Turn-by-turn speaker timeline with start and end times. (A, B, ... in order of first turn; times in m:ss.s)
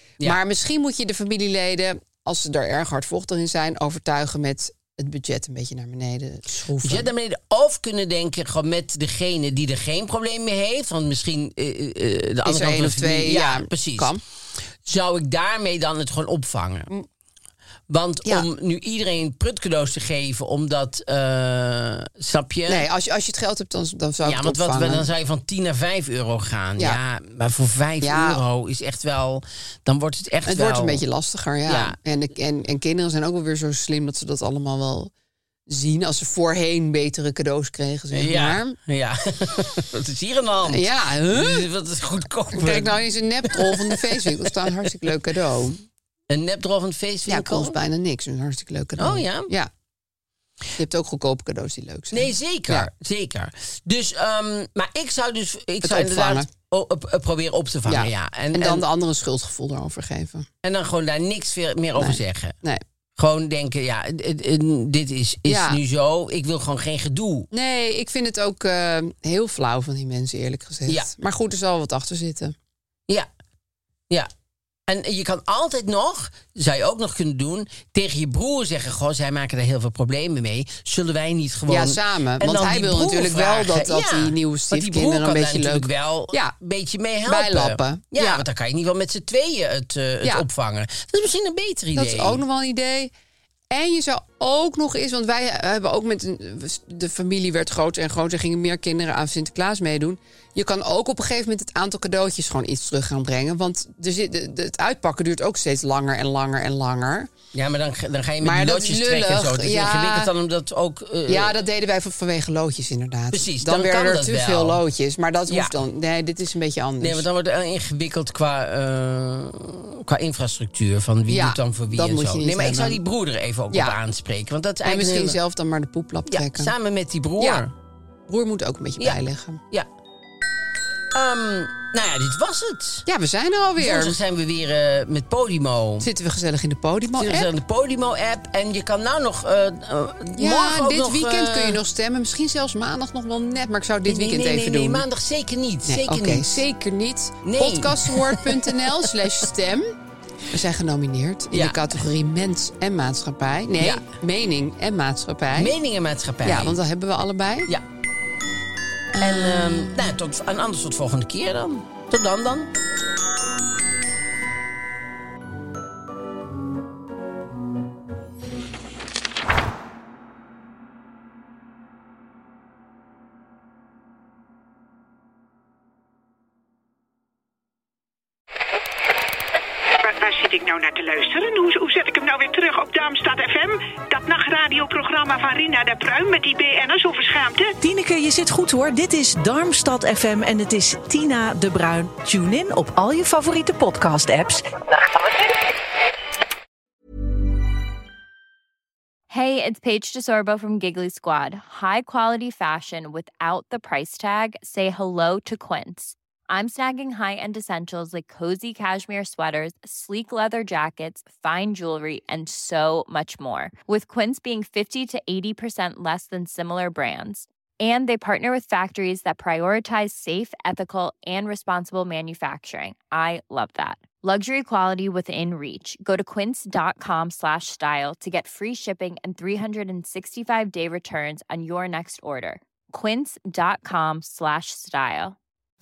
0:00.2-0:07.1 A
0:06.8-0:14.1 B
0:12.4-0:14.2 A
0:14.8-0:16.9 B
0:17.9-0:22.8 B
0:22.7-0:25.1 A
0:24.2-0:31.0 B
0:28.0-0:28.4 A
0:30.4-0:35.1 A
0:31.7-0:32.0 B
0:35.7-0:38.8 A
0:38.1-0:45.1 B
0:40.7-0:41.6 A
0:42.5-0:45.8 A
0:46.3-0:47.8 B
0:47.3-0:49.7 A
0:49.0-0:49.5 B
0:50.8-0:52.9 A
0:52.1-0:58.8 B
0:55.8-0:56.5 A
0:57.8-1:00.4 A
1:00.6-1:02.5 B
1:02.0-1:02.8 A
1:03.2-1:07.5 B
1:05.4-1:05.8 A
1:07.5-1:12.5 A
1:14.9-1:32.4 B
1:21.7-1:26.5 A
1:27.3-1:28.4 A
1:31.9-1:33.1 A
1:33.7-1:47.3 A
1:47.5-1:51.6 B
1:48.4-1:50.3 A
1:51.3-1:57.2 A
1:53.3-1:54.8 B
1:55.5-1:55.8 B
1:57.0-2:05.4 B
2:01.3-2:03.0 A
2:04.8-2:06.7 A
2:06.3-2:07.7 B
2:07.4-2:07.6 A
2:08.3-2:09.6 A
2:11.1-2:13.0 B
2:13.1-2:14.2 A
2:13.8-2:16.1 B
2:16.0-2:17.5 A
2:17.2-2:21.8 B
2:20.3-2:25.0 A
2:24.1-2:26.6 B
2:25.9-2:29.9 A
2:27.4-2:29.0 B
2:30.5-2:35.7 A
2:31.5-2:32.0 B
2:33.8-2:34.0 B
2:35.5-2:36.8 B
2:36.4-2:37.7 A
2:39.1-2:39.9 A
2:39.2-2:42.7 B
3:00.0-3:07.8 C
3:07.8-3:14.7 D
3:19.3-3:55.4 E